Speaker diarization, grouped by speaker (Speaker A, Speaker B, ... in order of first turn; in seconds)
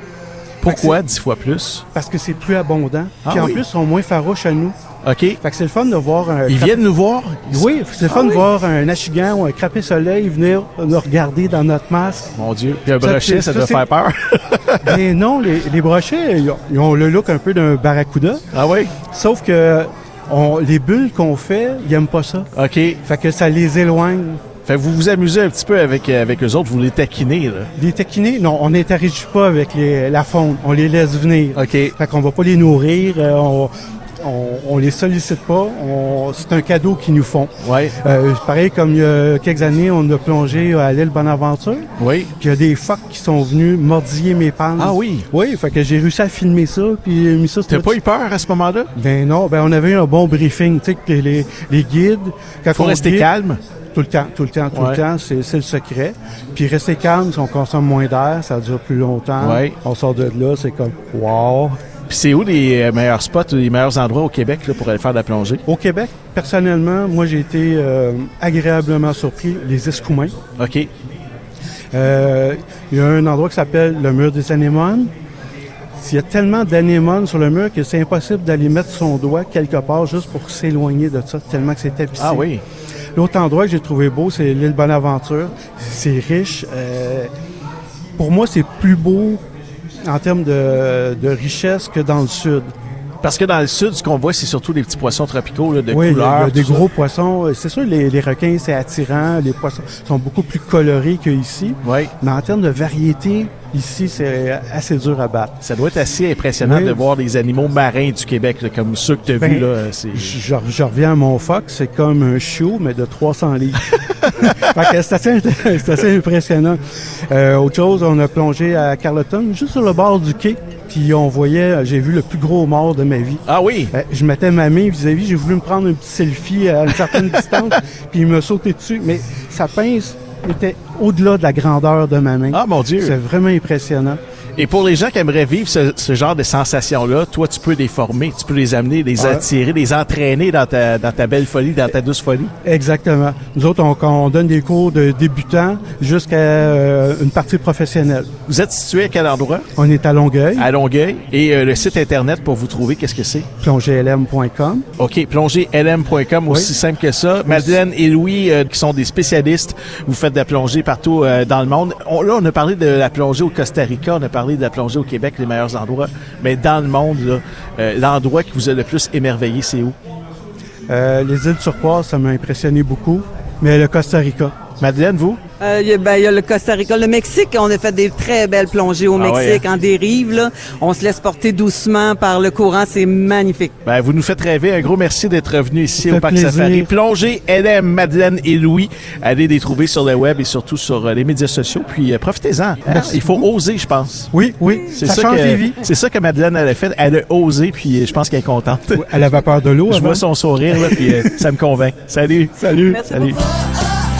Speaker A: 0.6-1.8, 3.2-3.6, 5.0-5.4, 6.5-8.4, 12.3-15.0, 18.5-18.9, 22.5-23.0, 24.6-27.7, 31.5-31.9, 37.6-38.0, 42.0-42.3, 44.8-45.2, 47.7-48.9, 52.7-53.6, 54.7-55.0, 59.4-59.8, 62.1-65.6, 70.6-70.9, 82.2-82.6, 93.2-96.8, 101.8-102.1, 105.6-110.4, 123.5-123.9, 127.1-127.4, 132.5-133.2, 134.6-142.5, 148.5-149.7, 150.6-153.5, 155.0-169.9, 174.8-175.4, 179.2-179.6, 183.8-194.3, 194.9-199.0, 199.9-202.6
Speaker B: 0.6-1.0, 1.9-4.8, 5.4-6.8, 7.5-12.3, 12.9-13.8, 14.8-18.4, 19.1-22.5, 23.0-24.4, 27.8-41.9, 42.4-48.0, 49.0-53.3, 53.9-61.8, 65.7-70.3, 71.9-75.1, 76.0-82.5, 83.2-87.3, 88.2-89.4, 90.0-92.7, 95.9-105.5, 106.6-107.0, 109.4-116.8, 117.3-134.2, 139.2-139.4, 142.6-148.3, 149.8-150.7, 153.6-154.8, 156.5-156.7, 157.4-157.8, 170.9-174.5, 186.0-186.9, 192.9-193.4, 194.3-195.8, 198.9-201.4, 202.6-203.4
Speaker C: 175.6-183.7